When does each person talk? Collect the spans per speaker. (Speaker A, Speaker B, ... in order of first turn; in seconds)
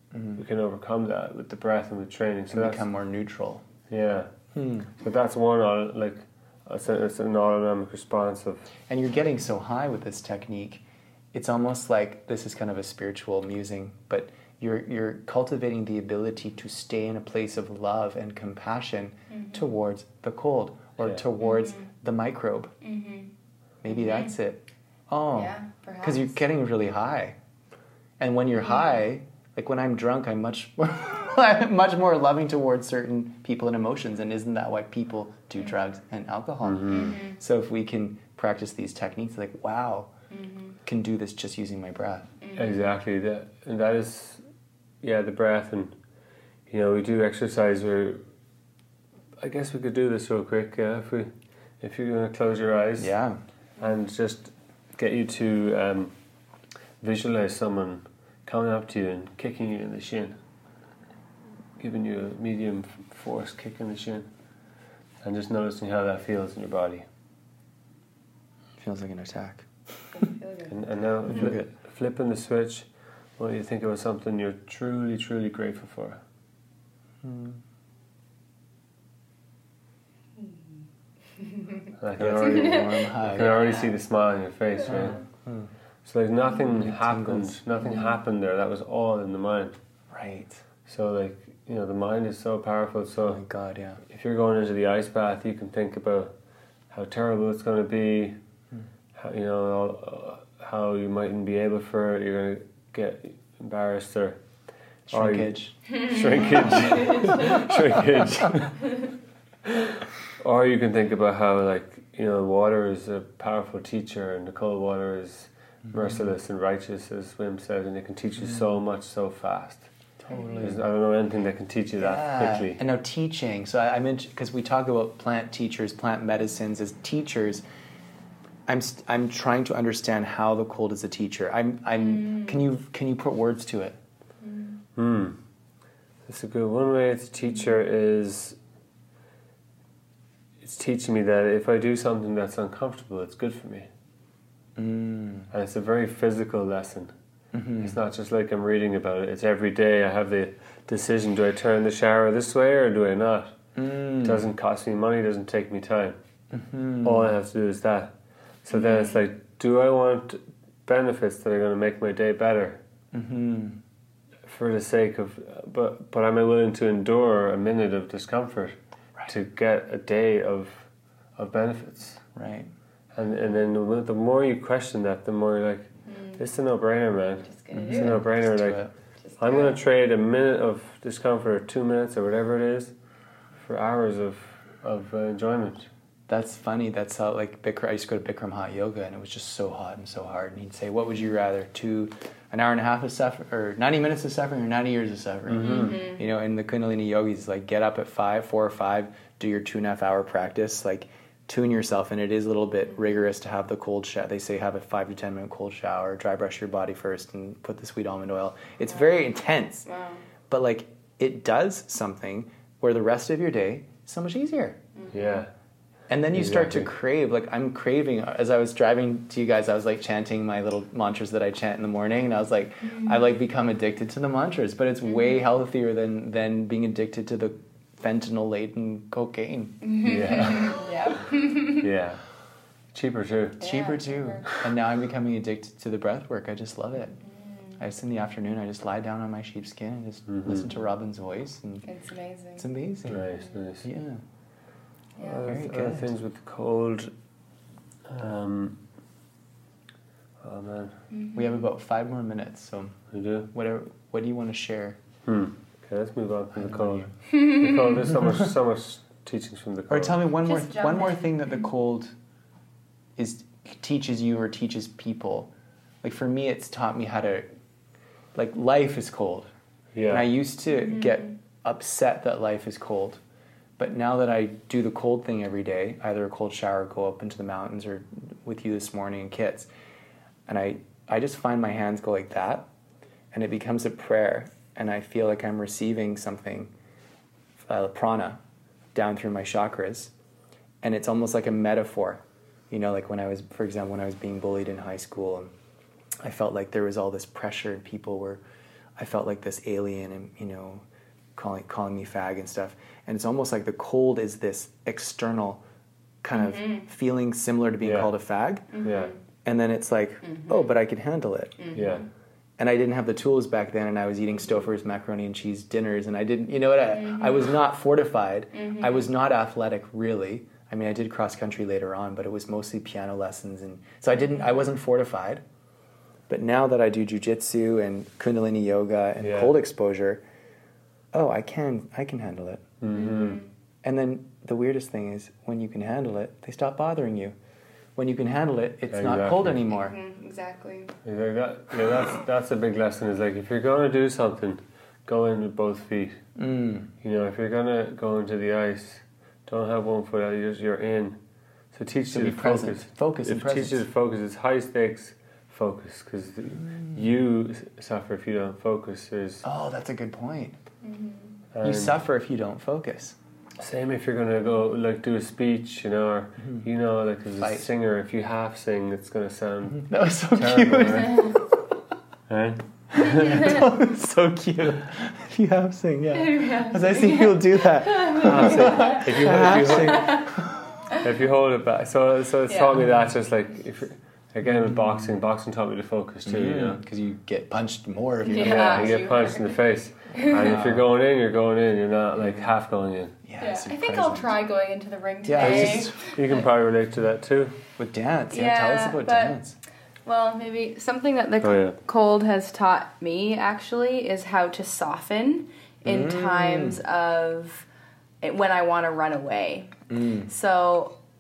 Speaker A: 0.1-0.4, 2.5-3.6, 4.5-4.9, 8.9-22.7, 23.8-27.4, 28.2-40.1, 40.9-42.3, 53.0-53.4, 68.8-70.2, 71.3-71.7, 77.2-77.6, 82.2-83.7, 84.9-85.7, 86.8-87.6, 90.1-90.6, 93.2-94.0, 105.1-105.9, 120.2-120.8, 122.0-127.6, 128.7-134.0, 144.8-145.5, 147.5-148.0, 153.8-154.5, 156.5-157.3, 163.1-163.8, 172.3-172.7, 177.7-178.9, 186.3-209.9, 210.5-214.8, 216.1-230.6, 233.6-237.2, 237.8-241.9, 242.6-243.2, 243.8-244.2, 245.4-246.1, 251.3-255.0, 256.5-257.1, 258.2-258.5, 259.9-262.1, 263.2-265.5, 266.0-267.5, 268.3-269.5, 270.1-273.2, 273.8-279.7, 280.5-282.7, 283.3-286.7, 287.7-288.4, 288.9-290.1, 290.8-295.5, 296.2-298.4, 299.0-300.8, 301.4-305.6, 306.2-308.8, 309.4-311.7, 312.6-325.4, 326.3-330.2, 331.1-332.6, 333.8-337.4, 338.0-339.9, 346.4-346.9, 352.1-353.8, 359.4-360.6, 361.6-363.2, 367.4-367.7, 369.7-371.6, 373.0-380.5, 386.3-389.0, 390.4-390.9, 392.2-392.5, 393.2-394.4, 395.2-396.1, 397.8-399.6, 405.9-406.8, 409.9-410.3
Speaker B: 0.4-2.9, 3.9-4.3, 5.0-8.7, 36.6-37.2, 42.6-44.4, 45.0-46.0, 46.7-48.2, 49.4-53.1, 53.8-56.1, 57.0-60.4, 61.8-64.3, 65.2-67.1, 70.7-76.2, 82.0-85.2, 86.0-89.8, 90.9-93.4, 94.1-96.3, 96.9-98.4, 99.2-104.4, 105.1-109.0, 109.7-119.9, 120.6-122.8, 135.0-135.4, 136.3-138.6, 140.6-143.9, 145.5-147.1, 147.8-153.6, 154.2-156.2, 157.0-158.1, 158.7-162.8, 164.4-168.8, 169.3-172.2, 173.1-178.8, 179.4-182.9, 183.6-185.9, 195.5-196.0, 215.1-215.5, 216.3-216.9, 230.0-230.8, 231.8-232.2, 232.9-233.6, 240.3-240.7, 243.1-243.9, 245.2-247.1, 248.1-248.8, 250.4-251.0, 253.1-253.5, 255.3-260.2, 269.9-270.3, 307.8-308.1, 308.8-309.1, 311.7-312.1, 329.2-329.5, 332.8-333.4, 338.9-339.6, 341.1-346.2, 347.0-351.2, 351.7-359.5, 361.5-362.0, 363.6-371.3, 372.3-373.6, 378.2-380.4, 380.9-386.8, 388.4-393.1, 395.4-397.6, 401.4-401.8
Speaker C: 19.3-19.7, 21.4-21.8, 22.8-23.3, 23.9-24.3, 25.4-26.3, 36.9-37.4, 40.3-40.8, 42.4-42.7, 70.2-70.7, 82.4-83.6, 105.9-106.2, 106.7-107.4, 132.2-132.5, 134.4-134.7, 158.7-159.1, 177.5-178.2, 179.3-179.7, 195.6-196.2, 209.9-210.2, 222.9-223.1, 229.8-231.8, 233.6-234.4, 241.9-242.7, 251.1-251.4, 260.4-261.4, 306.4-306.8, 308.7-309.1, 310.3-310.6, 311.6-311.9, 318.6-319.0, 332.9-333.4, 339.7-340.9, 360.8-361.3, 373.3-373.5, 376.1-379.0, 379.8-380.3, 382.5-382.7, 388.2-389.5, 390.1-390.4, 393.4-396.2, 398.3-399.4, 400.1-407.7, 408.2-411.0